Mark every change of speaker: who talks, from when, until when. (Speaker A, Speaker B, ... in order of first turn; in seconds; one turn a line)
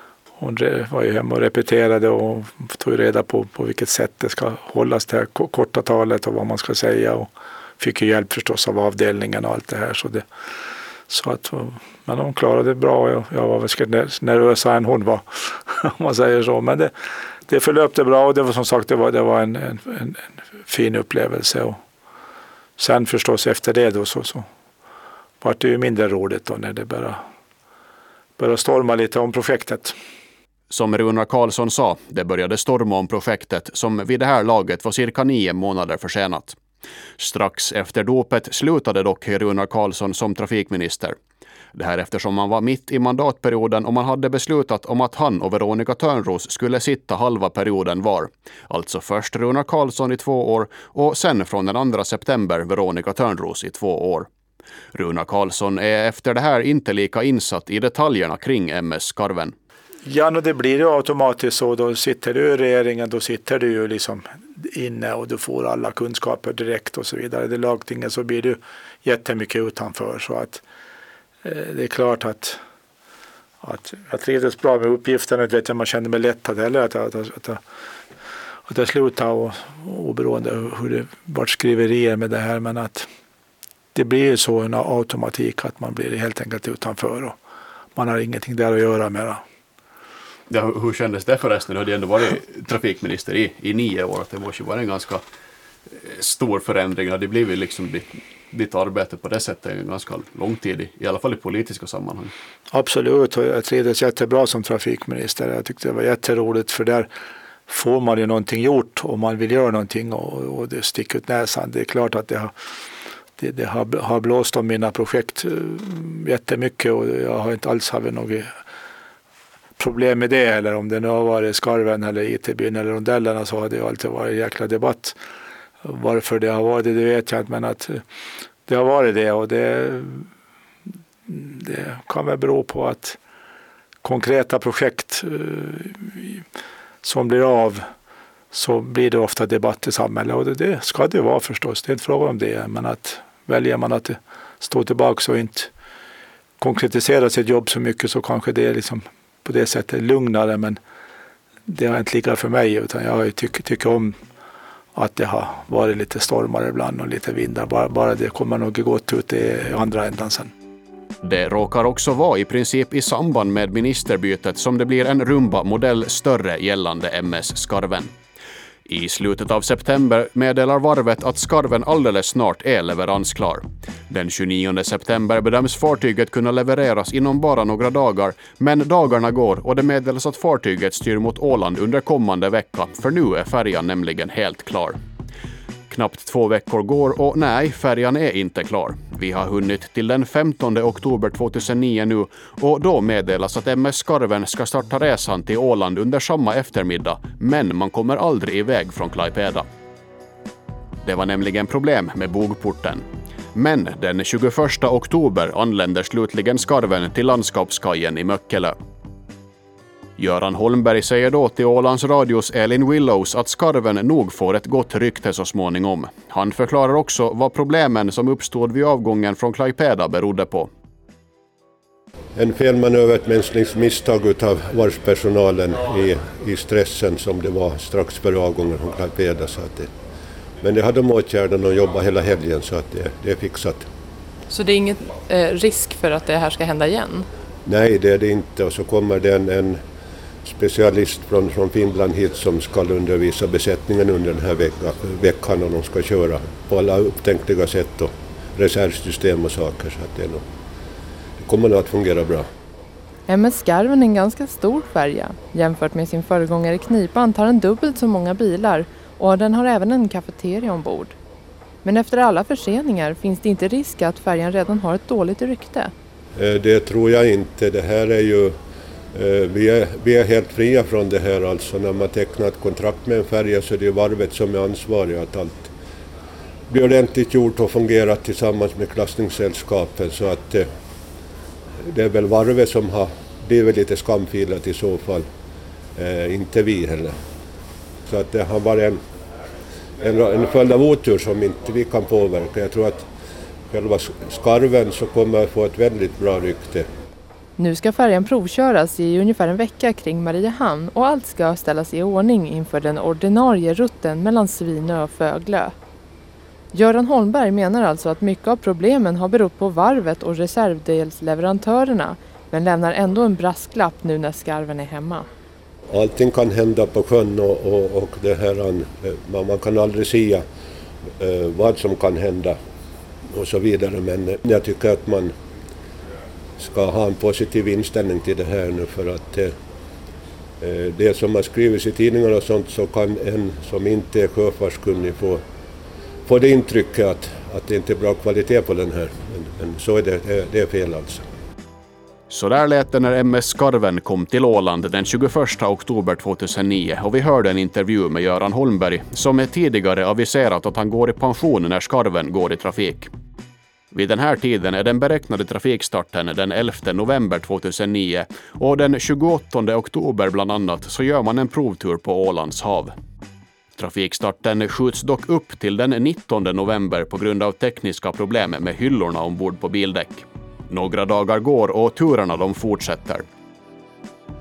Speaker A: 0.4-10.2
Speaker A: 11.1-16.9
Speaker A: 17.5-21.8
Speaker A: 22.8-24.4
Speaker A: 25.4-27.2
Speaker A: 28.4-29.9
Speaker B: 30.7-36.6
Speaker B: 37.2-41.1
Speaker B: 41.7-54.3
Speaker B: 54.9-59.5
Speaker A: 60.0-70.6
Speaker A: 71.4-72.6
Speaker A: 73.6-77.6
Speaker A: 78.7-83.1
Speaker A: 83.9-87.4
Speaker A: 88.0-89.4
Speaker B: 90.5-95.2
Speaker B: 95.9-102.3
Speaker A: 102.7-107.1
Speaker A: 107.7-112.5
Speaker A: 113.4-118.5
Speaker A: 119.8-125.2
Speaker A: 125.8-128.0
Speaker A: 128.7-130.3
Speaker A: 131.3-133.2
Speaker A: 134.0-136.4
Speaker A: 137.0-137.8
Speaker A: 138.5-145.7
Speaker A: 146.6-150.8
Speaker A: 151.7-154.2
Speaker A: 154.9-160.5
Speaker B: 161.2-168.1
Speaker B: 168.9-185.0
Speaker B: 185.9-199.7
Speaker B: 201.0-203.0
Speaker B: 203.5-208.8
Speaker B: 210.2-220.7
Speaker C: 222.3-229.9
Speaker C: 230.6-233.9
Speaker D: 234.5-237.3
Speaker C: 237.6-239.8
Speaker C: 240.4-250.4
Speaker C: 251.4-252.5
Speaker D: 253.3-261.1
Speaker D: 261.8-265.9
Speaker C: 266.3-268.6
Speaker C: 269.1-275.7
Speaker C: 276.7-280.7
Speaker C: 281.8-285.3
Speaker C: 285.9-287.2
Speaker C: 288.1-289.0
Speaker C: 290.0-293.1
Speaker C: 293.7-296.9
Speaker D: 297.6-305.7
Speaker D: 306.7-315.2
Speaker C: 315.9-320.4
Speaker C: 321.2-322.6
Speaker C: 323.3-325.3
Speaker C: 326.6-329.5
Speaker C: 330.6-335.4
Speaker C: 336.2-341.2
Speaker B: 342.3-353.1
Speaker B: 353.9-362.9
Speaker B: 363.8-373.2